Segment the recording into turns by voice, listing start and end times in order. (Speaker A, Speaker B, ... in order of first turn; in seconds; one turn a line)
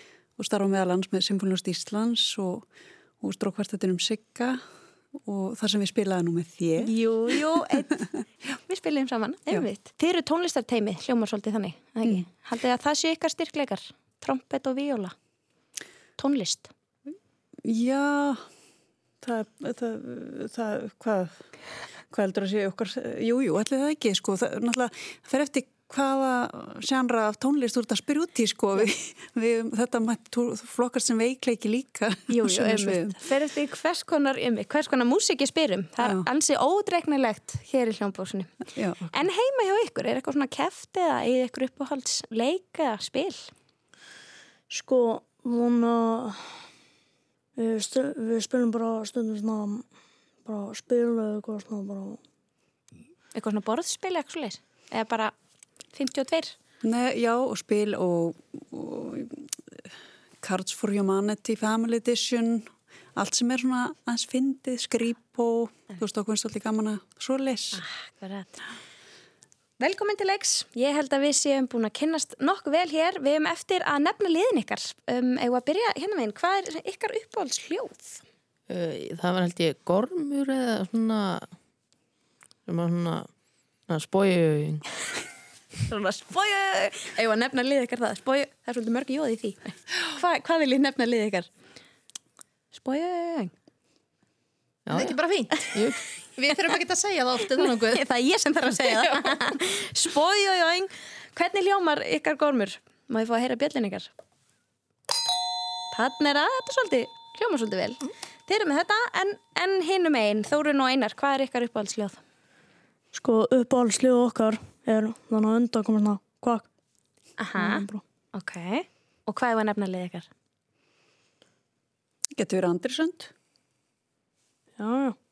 Speaker A: 0.4-2.6
Speaker A: 3.2-4.6
Speaker A: 5.3-6.9
Speaker B: 6.8-15.1
Speaker B: 16.2-16.7
Speaker A: 17.6-18.4
Speaker A: 19.2-21.3
Speaker A: 22.1-33.2
Speaker B: 32.3-38.5
Speaker A: 38.8-39.1
Speaker B: 39.1-43.5
Speaker C: 44.7-46.4
Speaker C: 47.6-49.9
Speaker C: 50.5-52.2
Speaker B: 53.3-55.3
Speaker B: 55.9-56.5
Speaker A: 56.8-59.9
Speaker A: 60.4-67.8
Speaker B: 67.7-68.6
Speaker B: 69.8-78.2
Speaker D: 78.7-81.5
Speaker D: 82.7-83.3
Speaker D: 83.9-84.8
Speaker B: 85.9-91.5
Speaker B: 92.7-93.5
Speaker D: 94.9-95.2
Speaker E: 94.9-95.8
Speaker D: 95.7-96.0
Speaker E: 96.4-98.0
Speaker B: 97.8-104.1
Speaker E: 98.7-99.4
Speaker B: 105.9-112.2
Speaker C: 113.1-116.7
Speaker B: 117.4-120.3
Speaker C: 117.6-118.0
Speaker A: 122.4-123.3
Speaker C: 124.8-125.2